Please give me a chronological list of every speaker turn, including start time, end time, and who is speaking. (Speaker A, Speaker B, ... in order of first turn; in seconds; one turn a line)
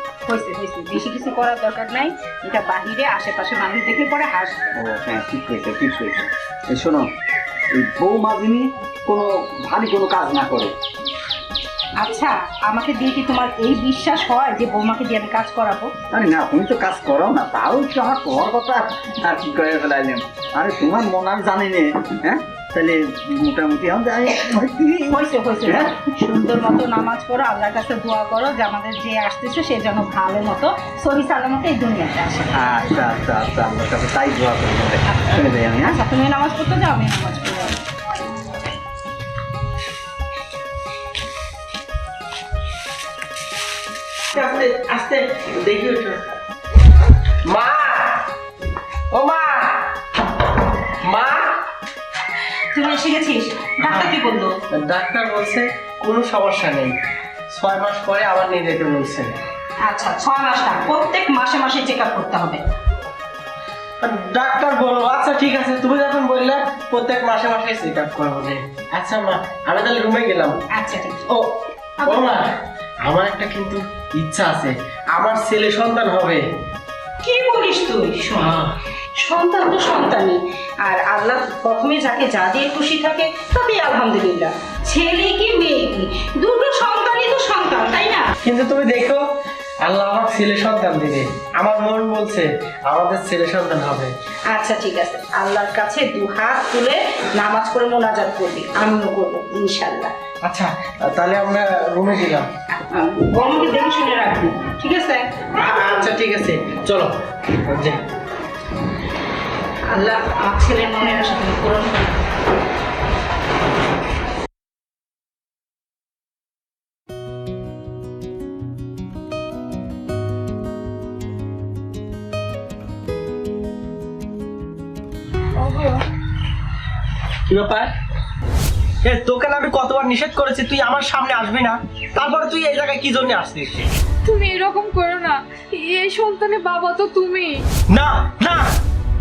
Speaker A: 0.2-4.7
Speaker B: 4.8-7.1
Speaker B: 7.7-10.7
Speaker A: 12.0-15.9
Speaker B: 16.1-25.2
Speaker A: 25.1-32.6
Speaker B: 25.7-25.9
Speaker B: 32.5-36.0
Speaker A: 35.1-37.8
Speaker C: 44.3-46.2
Speaker C: 47.5-48.2
Speaker C: 49.1-49.9
Speaker C: 51.0-51.6
Speaker A: 52.7-54.5
Speaker C: 53.8-54.1
Speaker C: 54.7-57.0
Speaker C: 57.5-59.3
Speaker A: 59.8-62.6
Speaker C: 64.0-70.6
Speaker A: 70.7-71.3
Speaker C: 71.3-76.4
Speaker A: 72.0-72.4
Speaker A: 77.2-88.3
Speaker C: 88.4-89.2
Speaker C: 89.8-94.1
Speaker A: 94.5-100.1
Speaker C: 100.4-102.5
Speaker A: 102.7-106.1
Speaker C: 105.6-108.0
Speaker A: 109.8-112.2
Speaker D: 125.6-126.0
Speaker C: 127.5-127.9
Speaker C: 129.0-133.8
Speaker D: 134.2-137.6
Speaker C: 137.9-138.8